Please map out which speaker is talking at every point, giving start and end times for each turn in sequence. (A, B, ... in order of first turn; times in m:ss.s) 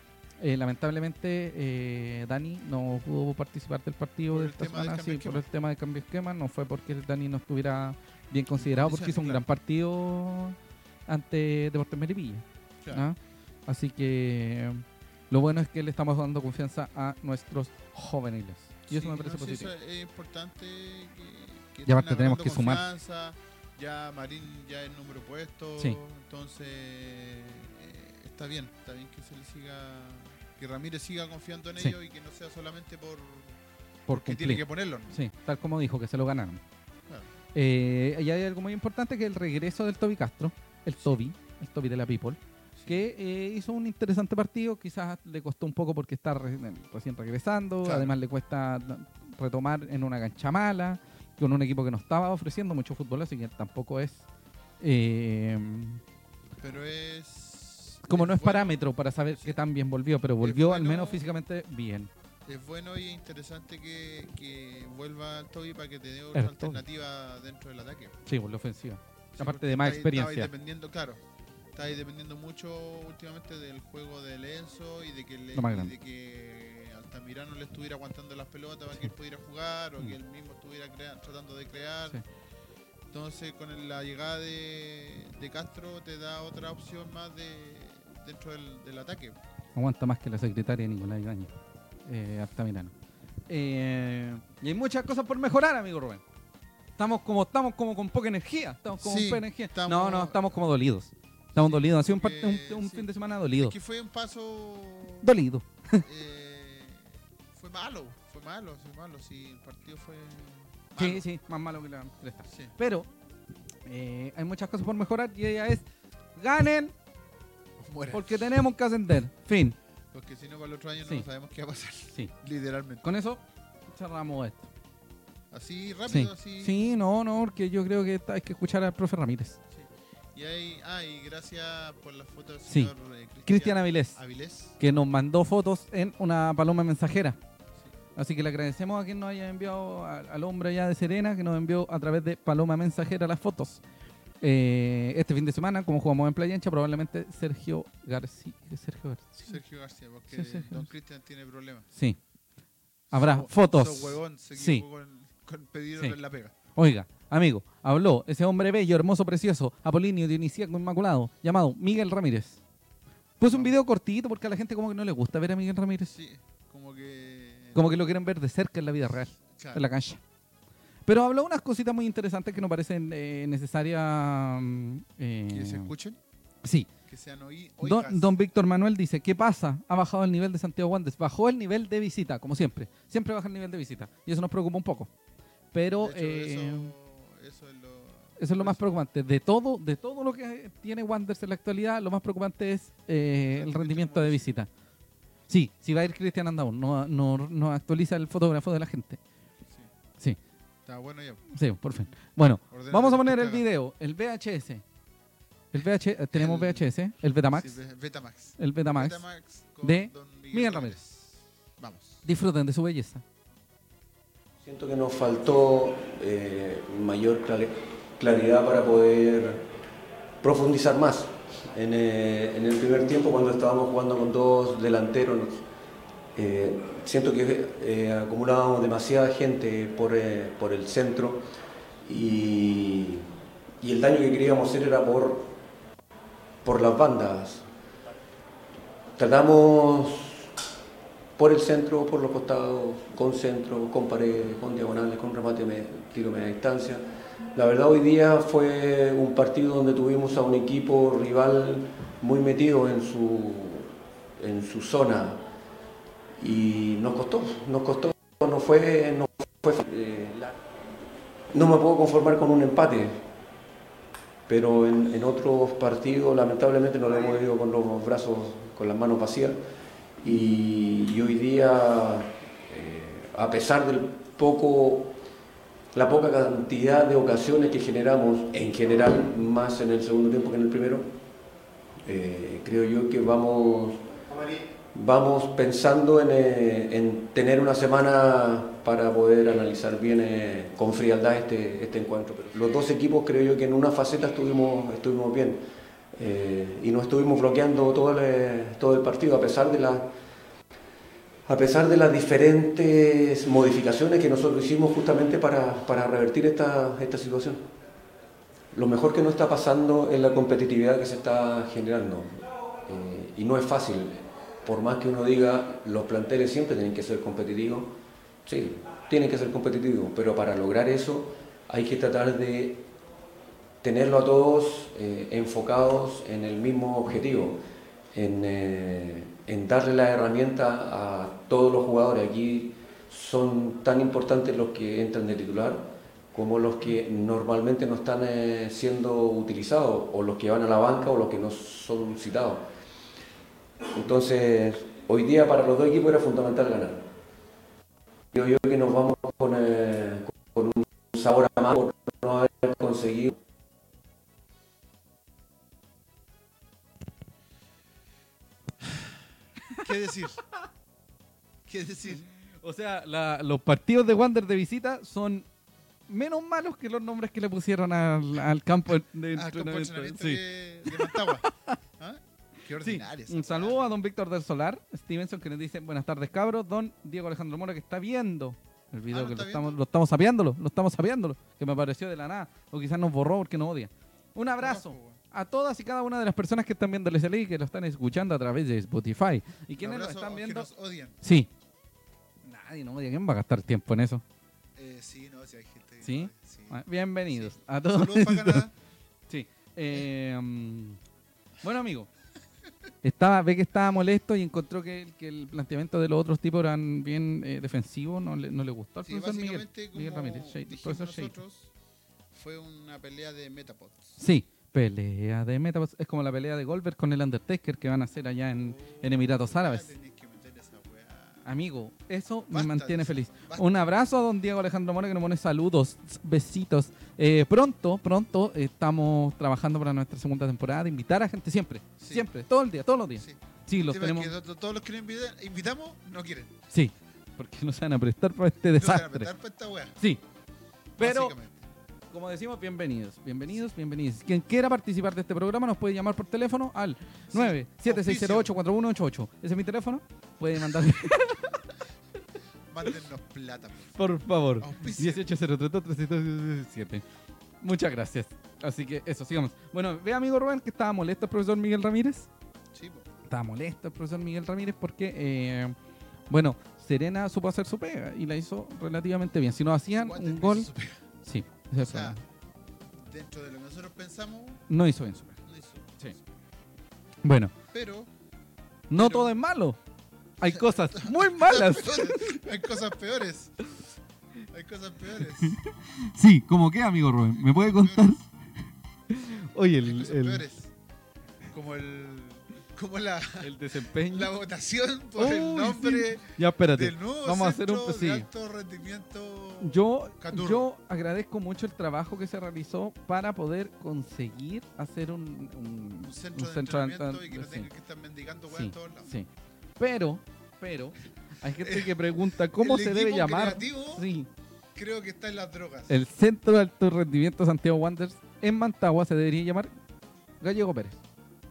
0:00.4-0:19.7 A
0:04.3-0:05.4 B
0:08.6-0:09.4 B
0:18.9-0:33.6 B
0:21.8-0:22.8 A
0:34.1-0:36.6 A
0:34.1-0:35.2 B
0:37.5-0:54.2 A
0:42.8-0:43.0 B
0:47.8-0:48.2 B
0:54.8-0:56.0 A
0:56.6-0:58.8 B
0:58.0-1:02.1 A
0:59.3-0:59.6 B
1:00.4-1:01.2 B
1:02.4-1:08.2 B
1:06.3-1:06.8 A
1:08.2-1:10.5 A
1:09.3-1:11.2 B
1:11.7-1:22.2 B
1:15.5-1:15.9 A
1:23.1-1:29.4 B
1:29.8-1:31.5 A
1:32.0-1:32.9 A
1:33.5-1:36.2 A
1:37.0-1:43.7 A
1:39.0-1:40.4 B
1:41.5-1:45.4 B
1:45.2-1:46.0 A
1:46.0-1:51.2 B
1:51.0-1:53.1 A
1:52.5-1:52.7 B
1:53.8-1:56.9 A
1:57.8-1:58.5 B
1:58.1-1:59.8 A
2:00.1-2:03.0 B
2:03.0-2:04.7 A
2:05.5-2:06.9 B
2:06.1-2:09.6 A
2:09.7-2:14.8 B
2:13.4-2:14.2 A
2:14.8-2:17.4 A
2:18.2-2:23.8 A
2:24.4-2:29.6 A
2:29.4-2:31.9 B
2:30.3-2:30.9 A
2:31.9-2:32.2 A
2:33.1-2:36.5 B
2:33.1-2:34.8 A
2:36.8-2:42.6 A
2:43.4-2:46.1 A
2:43.5-2:43.8 B
2:46.1-2:47.9 B
2:47.7-2:50.2 A
2:49.6-2:49.8 B
2:51.0-2:55.9 A
2:55.5-2:56.2 B
2:56.6-2:56.9 A
2:57.1-2:58.3 B
2:57.8-3:05.1 A
3:05.7-3:06.9 A
3:06.0-3:08.8 B
3:08.4-3:14.7 A
3:13.5-3:14.6 B
3:15.5-3:19.2 A
3:20.8-3:21.4 B
3:21.5-3:24.8 A
3:22.7-3:23.6 B
3:25.7-3:27.8 A
3:26.3-3:26.9 B
3:27.5-3:32.2 B
3:28.6-3:29.2 A
3:29.8-3:31.0 A
3:32.2-3:33.2 A
3:34.6-3:39.6 C
3:40.4-3:45.6 C
3:46.3-3:51.5 C
3:52.0-3:53.3 C
3:53.8-3:55.5 C
3:56.6-3:57.6 C
3:59.2-4:00.5 C
4:01.4-4:15.4 C
4:16.4-4:20.6 C
4:21.5-4:23.2 C
4:24.5-4:29.6 C
4:30.2-4:35.1 C
4:35.9-4:41.0 C
4:42.0-4:44.0 C
4:44.9-4:55.6 C
4:56.1-5:00.1 C
5:01.5-5:07.6 C
5:08.7-5:22.8 C
5:23.8-5:27.6 C
5:28.1-5:42.6 C
5:43.9-5:47.0 C
5:48.3-5:53.4 C
5:59.7-6:00.4 B
6:01.6-6:02.2 B
6:02.6-6:05.5 A
6:06.1-6:11.8 A
6:09.3-6:11.4 B
6:12.0-6:13.9 B
6:12.8-6:30.7 A
6:19.1-6:19.8 B
6:24.6-6:25.2 B
6:29.8-6:31.2 B
6:31.2-6:31.5 A
6:32.4-6:34.2 A
6:34.8-6:38.7 B
6:36.0-6:38.6 A
6:39.3-6:41.0 A
6:41.6-6:42.1 A
6:43.0-6:51.4 A
6:49.0-6:51.7 B
6:52.3-6:54.2 B
6:54.2-6:59.9 A
6:58.5-7:01.5 B
7:01.4-7:14.3 A
7:02.5-7:03.8 B
7:12.0-7:12.3 B
7:13.2-7:16.5 B
7:16.7-7:19.3 A
7:18.7-7:19.9 B
7:21.0-7:21.3 A
7:21.0-7:21.7 B
7:22.1-7:31.7 A
7:27.3-7:28.5 B
7:32.7-7:33.9 B
7:34.0-7:37.0 A
7:34.6-7:35.2 B
7:37.6-7:42.3 A
7:42.7-7:43.1 B
7:43.3-7:45.8 A
7:46.3-7:50.7 A
7:50.0-7:51.0 B
7:51.2-7:52.2 A
7:51.8-7:52.2 B
7:53.0-7:54.6 B
7:54.7-7:55.4 A
7:55.4-7:56.2 B
7:57.2-7:57.5 A
7:57.7-7:58.1 B
7:58.9-7:59.8 A
7:58.9-7:59.3 B
8:00.4-8:02.4 A
8:00.5-8:03.7 B
8:04.5-8:05.6 B
8:05.4-8:08.2 A
8:07.5-8:08.1 B
8:09.1-8:10.4 A
8:09.8-8:10.7 B
8:11.5-8:20.7 B
8:13.4-8:14.3 A
8:15.2-8:18.3 A
8:19.6-8:27.7 A
8:26.0-8:29.2 B
8:28.5-8:34.3 A
8:31.6-8:34.1 B
8:34.8-8:35.9 B
8:35.9-8:39.7 A
8:40.4-8:41.0 A